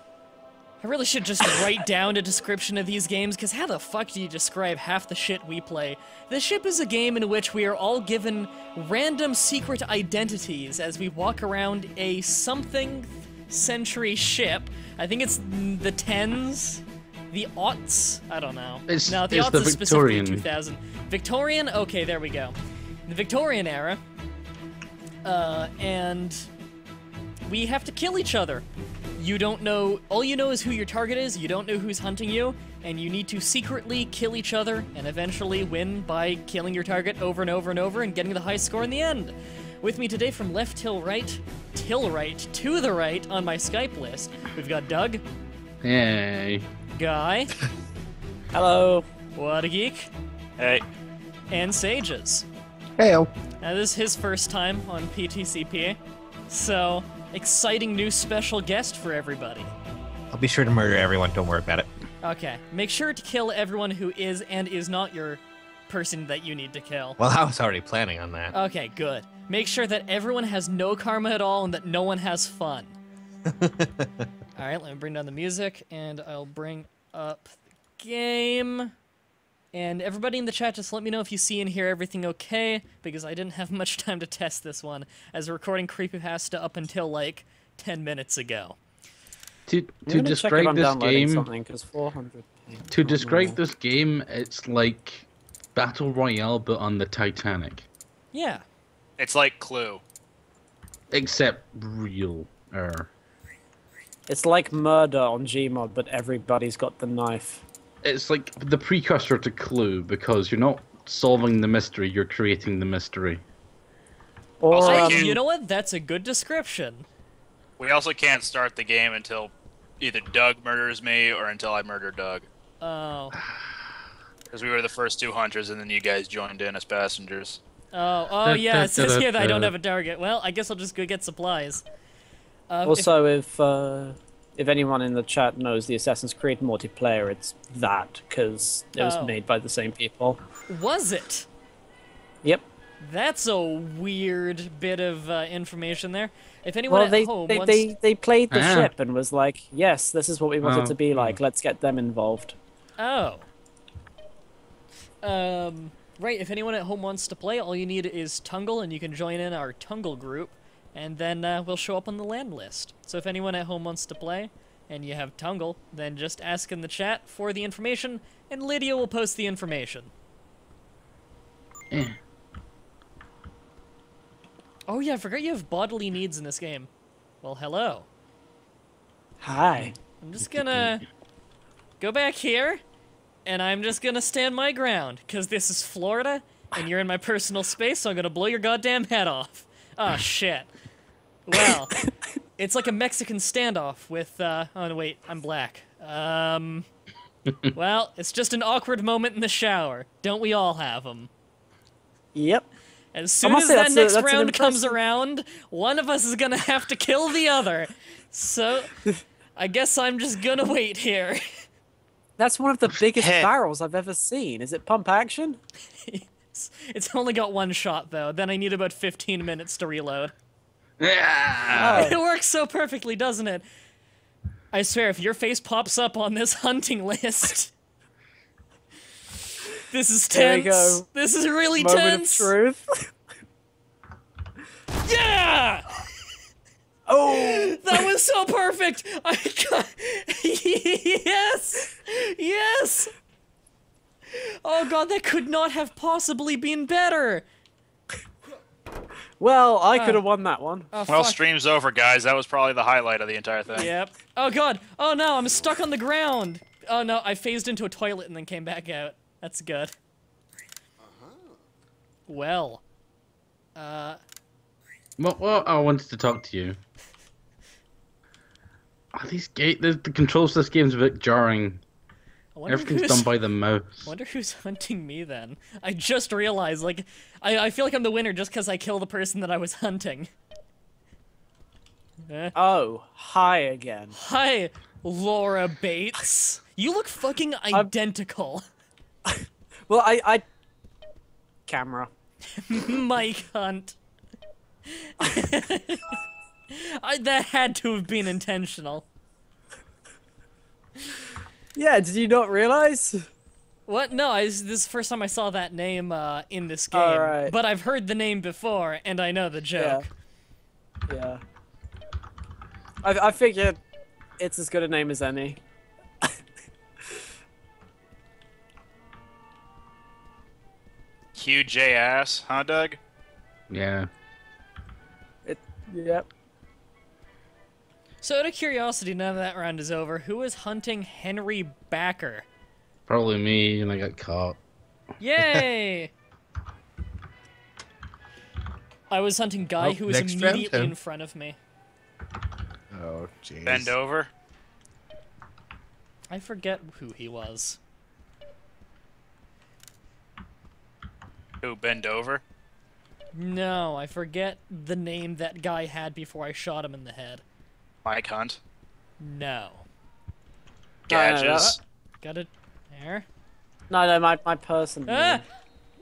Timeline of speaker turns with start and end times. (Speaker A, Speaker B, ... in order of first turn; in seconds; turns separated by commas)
Speaker A: 0.8-22.5, Speaker B: 18.9-20.5, Speaker A: 23.1-24.0, Speaker A: 25.2-26.5, Speaker A: 27.5-28.6, Speaker A: 29.2-45.2, Speaker B: 45.8-46.7, Speaker A: 46.9-47.5, Speaker C: 48.5-49.1, Speaker A: 49.4-50.1, Speaker D: 50.6-50.8, Speaker A: 51.5-52.5, Speaker E: 53.0-53.3, Speaker A: 53.6-56.0, Speaker A: 56.5-59.7, Speaker E: 60.3-61.9, Speaker A: 62.2-67.2, Speaker E: 67.2-68.5, Speaker A: 68.5-73.0, Speaker E: 73.5-74.2, Speaker A: 74.5-78.9, Speaker A: 79.7-88.8, Speaker B: 89.7-91.5, Speaker C: 90.1-93.6, Speaker B: 92.9-97.8, Speaker A: 98.3-98.6, Speaker D: 99.2-100.0, Speaker B: 101.1-103.1, Speaker C: 104.3-107.6, Speaker B: 108.0-113.4, Speaker C: 114.6-115.4, Speaker D: 114.7-115.3, Speaker A: 114.9-117.1, Speaker D: 117.8-122.5, Speaker A: 122.8-123.3, Speaker D: 124.5-127.6, Speaker A: 127.9-131.8, Speaker B: 128.4-129.8, Speaker A: 132.7-133.1, Speaker C: 132.8-140.4, Speaker A: 139.0-139.4, Speaker A: 140.7-141.5, Speaker A: 143.0-147.9, Speaker C: 146.9-152.6, Speaker B: 148.5-148.9, Speaker B: 150.6-151.4, Speaker A: 153.0-153.4, Speaker A: 155.2-170.1, Speaker B: 171.9-172.2, Speaker A: 174.9-176.9, Speaker A: 177.4-178.1, Speaker C: 179.4-179.9, Speaker A: 180.2-181.0, Speaker B: 180.5-180.9, Speaker A: 182.0-182.8, Speaker A: 183.4-190.7, Speaker A: 191.5-191.9, Speaker A: 192.6-196.8, Speaker A: 197.8-201.3, Speaker C: 202.3-202.7, Speaker A: 203.1-208.9, Speaker C: 203.4-204.9, Speaker A: 209.6-211.4, Speaker C: 212.4-215.6, Speaker E: 213.2-213.5, Speaker A: 216.0-220.3, Speaker B: 221.0-222.2, Speaker C: 221.7-222.2, Speaker A: 221.8-223.7, Speaker A: 224.7-227.7, Speaker A: 229.9-232.5, Speaker C: 230.3-231.1, Speaker C: 231.8-232.9, Speaker A: 235.0-235.9, Speaker C: 237.1-238.1, Speaker A: 237.4-243.1, Speaker A: 244.3-247.4, Speaker C: 249.4-250.9, Speaker A: 249.9-250.2, Speaker A: 250.9-251.4, Speaker D: 251.1-253.9, Speaker A: 253.7-259.9, Speaker A: 262.3-262.8, Speaker A: 263.8-264.2, Speaker B: 265.2-266.8, Speaker B: 269.1-271.8, Speaker A: 272.6-273.3, Speaker B: 272.7-274.1, Speaker A: 274.0-280.3, Speaker A: 282.3-282.6, Speaker C: 282.6-284.1, Speaker A: 284.1-288.6, Speaker C: 289.3-290.4, Speaker C: 291.7-292.1, Speaker A: 292.6-294.0, Speaker A: 294.9-296.2, Speaker A: 296.7-299.1, Speaker C: 301.8-303.3, Speaker A: 303.9-310.1, Speaker C: 306.9-307.5, Speaker C: 309.8-310.0, Speaker C: 311.1-311.4, Speaker C: 313.0-313.8, Speaker C: 314.4-315.6, Speaker D: 321.4-323.0, Speaker B: 323.7-324.1, Speaker C: 325.5-326.3, Speaker A: 328.2-332.5, Speaker B: 333.1-334.6, Speaker A: 335.2-336.1, Speaker A: 339.1-341.6, Speaker E: 339.8-340.9, Speaker E: 342.9-343.9, Speaker D: 343.6-344.3, Speaker A: 346.3-347.8, Speaker D: 351.6-352.4, Speaker A: 353.3-357.4, Speaker D: 358.1-358.6, Speaker A: 359.2-359.9, Speaker D: 361.1-361.8, Speaker C: 361.1-361.8, Speaker A: 361.6-363.3, Speaker C: 363.9-365.4, Speaker A: 365.1-365.4